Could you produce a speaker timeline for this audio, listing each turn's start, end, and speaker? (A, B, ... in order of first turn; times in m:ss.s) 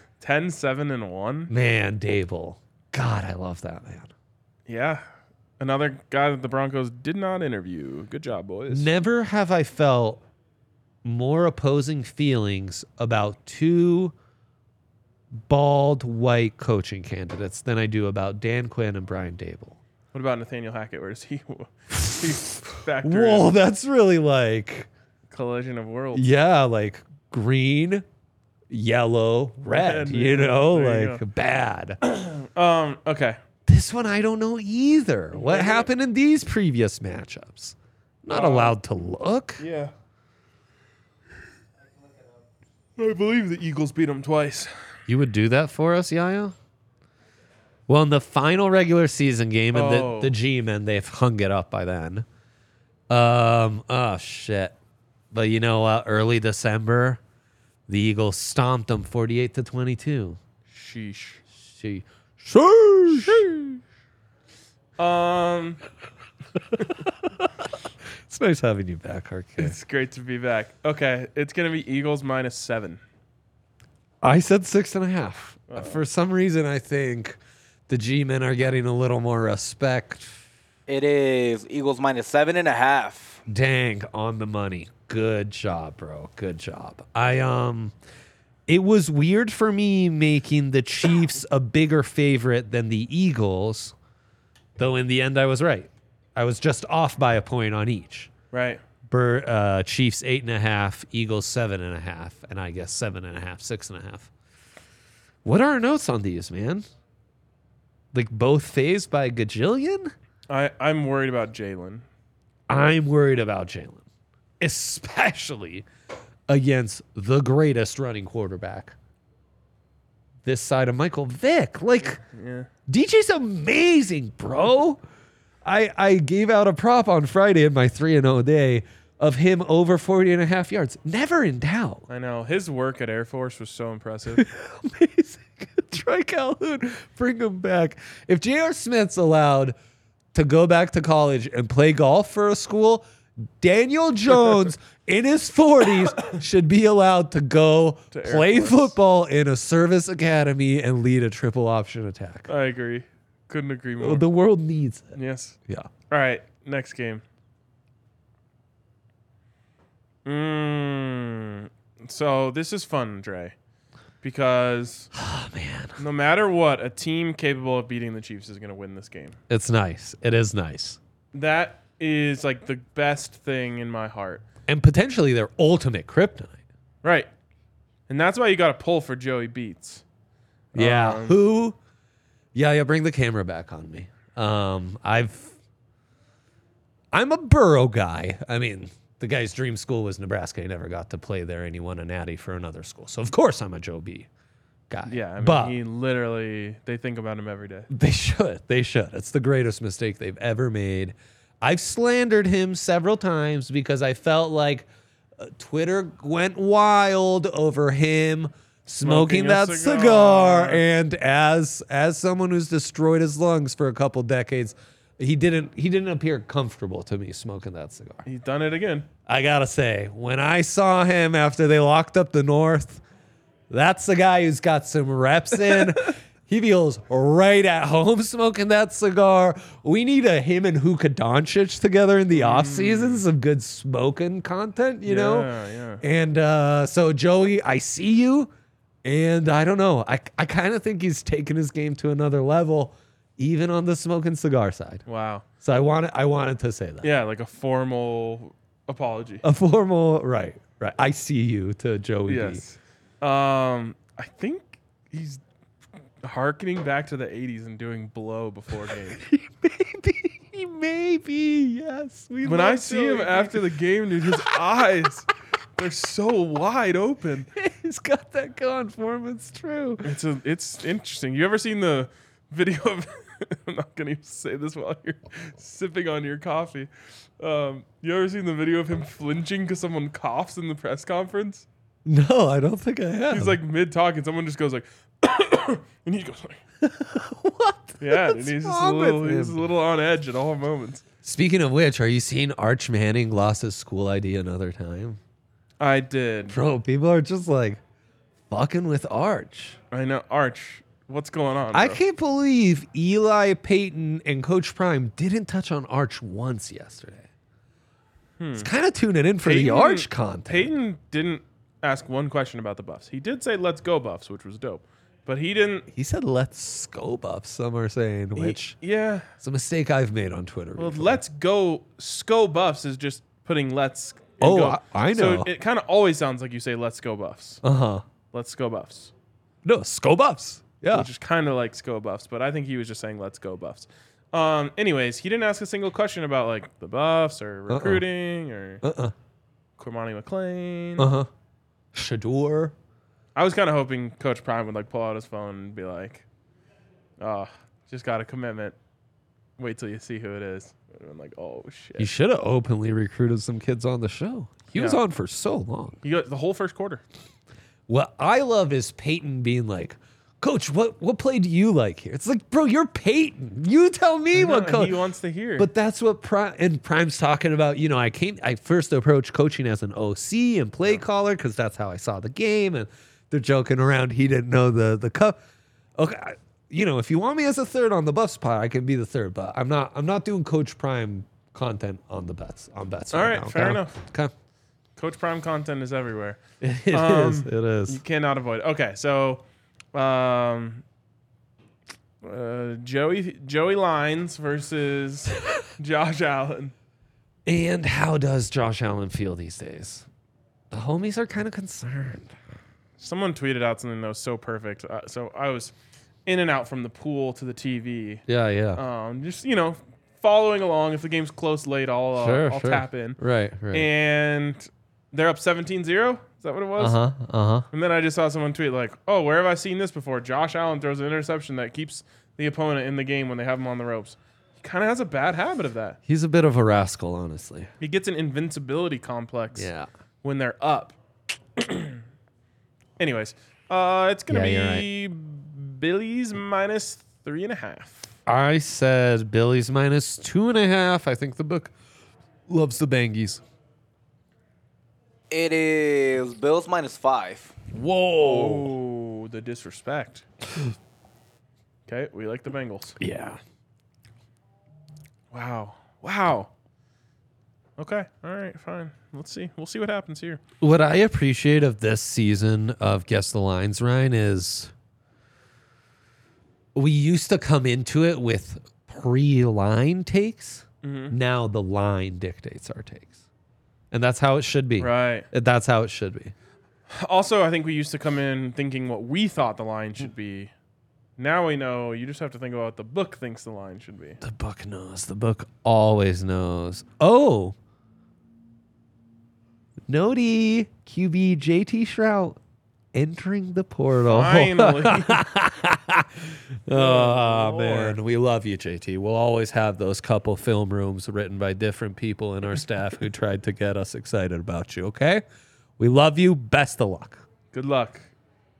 0:00.2-0:01.5 A
0:01.5-0:04.1 B
0:04.7-0:05.0 A
0:05.6-0:08.9 A
0:08.7-0:10.2 B
0:11.0-0:14.1 B
0:15.4-0:19.8 B
0:20.1-0:23.5 A
0:22.1-0:24.9 B
0:25.3-0:26.3 A
0:26.1-0:28.0 B
0:28.7-0:32.0 B
0:29.7-0:31.2 A
0:32.0-0:33.4 A
0:33.7-0:39.6 B
0:35.3-0:35.9 A
0:38.3-0:38.8 A
0:39.6-0:39.9 A
0:43.0-0:44.7 A
0:45.1-0:46.6 B
0:47.9-0:52.3 B
0:49.7-0:50.3 A
0:53.1-0:54.8 B
0:55.3-0:57.2 B
0:57.9-1:00.4 B
1:00.7-1:01.4 A
1:01.6-1:03.5 B
1:03.1-1:03.8 A
1:05.0-1:05.8 A
1:06.7-1:07.7 B
1:08.2-1:09.8 B
1:09.6-1:13.0 A
1:14.2-1:20.4 B
1:15.7-1:16.0 A
1:20.9-1:23.4 C
1:23.5-1:27.9 B
1:28.7-1:34.0 B
1:34.8-1:38.3 B
1:38.5-1:38.8 A
1:39.1-1:44.3 B
1:45.4-1:46.9 B
1:48.1-1:50.1 B
1:50.5-1:52.0 A
1:52.7-1:54.0 B
1:54.6-1:55.9 B
1:56.5-1:59.0 B
2:00.4-2:02.2 B
2:02.2-2:02.7 A
2:02.9-2:05.0 B
2:05.6-2:12.1 B
2:12.1-2:14.4 A
2:14.3-2:19.8 B
2:20.3-2:23.0 B
2:23.6-2:32.5 B
2:28.1-2:28.9 A
2:32.5-2:34.3 A
2:34.0-2:35.9 B
2:35.2-2:35.6 A
2:36.1-2:37.2 A
2:40.2-2:43.5 A
2:44.2-2:45.1 A
2:45.2-2:46.0 B
2:46.0-2:49.4 A
2:49.5-2:51.0 B
2:51.3-2:54.4 A
2:54.7-2:56.6 B
2:57.0-2:57.3 A
2:58.1-3:00.0 A
3:00.7-3:01.4 A
3:00.8-3:01.8 B
3:02.5-3:05.6 B
3:07.1-3:14.3 B
3:14.9-3:15.8 B
3:15.1-3:17.9 A
3:17.9-3:24.9 B
3:25.4-3:38.2 B
3:29.0-3:30.8 A
3:38.2-3:39.1 A
3:39.3-3:43.0 B
3:43.7-3:58.5 B
3:52.3-3:53.2 A
3:55.0-3:56.0 A
3:59.0-4:05.0 B
4:05.1-4:05.4 A
4:05.6-4:07.1 B
4:07.0-4:09.4 A
4:09.4-4:12.6 B
4:12.3-4:15.4 A
4:16.2-4:19.2 A
4:19.2-4:23.6 B
4:22.4-4:27.5 A
4:24.3-4:24.6 B
4:27.6-4:30.1 B
4:30.0-4:36.9 A
4:37.4-4:41.7 A
4:42.1-4:43.6 B
4:43.3-4:46.6 A
4:46.8-4:49.6 B
4:48.0-4:51.0 A
4:51.2-4:55.2 B
4:55.8-4:56.6 A
4:56.5-4:57.8 B
4:58.5-4:59.8 B
4:59.9-5:02.0 A
5:01.7-5:07.3 B
5:08.4-5:08.7 A
5:08.6-5:10.7 B
5:09.4-5:15.9 A
5:15.9-5:18.8 B
5:18.4-5:19.3 A
5:19.4-5:21.2 B
5:20.8-5:27.6 A
5:24.4-5:25.5 B
5:27.6-5:28.1 B
5:28.3-5:29.1 A
5:29.6-5:31.1 B
5:30.9-5:38.8 A
5:37.7-5:38.1 B
5:38.8-5:39.1 B
5:39.8-5:41.1 A
5:41.0-5:41.3 B
5:41.9-5:42.8 B
5:43.4-5:46.2 A
5:47.2-5:48.8 A
5:49.6-5:52.1 A
5:52.0-5:56.0 B
5:54.7-5:55.0 A
5:56.0-5:57.0 A
5:57.9-6:05.0 B
6:04.3-6:05.7 A
6:05.6-6:15.4 B
6:16.0-6:24.3 B
6:23.1-6:24.0 A
6:25.0-6:29.4 A
6:26.6-6:28.0 B
6:29.9-6:30.8 A
6:32.2-6:36.7 A
6:37.5-6:40.1 B
6:40.7-6:42.3 B
6:43.0-6:45.7 A
6:46.3-6:53.2 A
6:48.3-6:48.8 B
6:52.2-6:53.9 B
6:53.7-6:57.0 A
6:56.8-6:57.7 B
6:57.7-7:06.0 A
7:06.1-7:07.7 B
7:07.8-7:09.7 A
7:09.6-7:09.9 B
7:10.2-7:11.0 A
7:11.6-7:12.0 A
7:13.0-7:18.1 A
7:14.3-7:14.9 B
7:18.3-7:21.7 B
7:22.5-7:23.4 B
7:25.3-7:27.6 C
7:27.7-7:28.7 B
7:28.2-7:30.2 A
7:31.9-7:33.0 A
7:33.0-7:33.4 B
7:35.3-7:36.5 A
7:37.8-7:40.4 A
7:40.6-7:44.7 B
7:46.8-7:53.2 B
7:50.8-7:51.2 A
7:53.9-7:56.3 B
7:54.8-7:55.3 A
7:56.9-8:00.5 A
8:01.2-8:04.2 A
8:04.2-8:07.6 B
8:09.9-8:12.4 B
8:12.9-8:25.2 B
8:14.1-8:15.2 A
8:16.7-8:18.0 A
8:25.8-8:27.2 B
8:27.5-8:28.1 A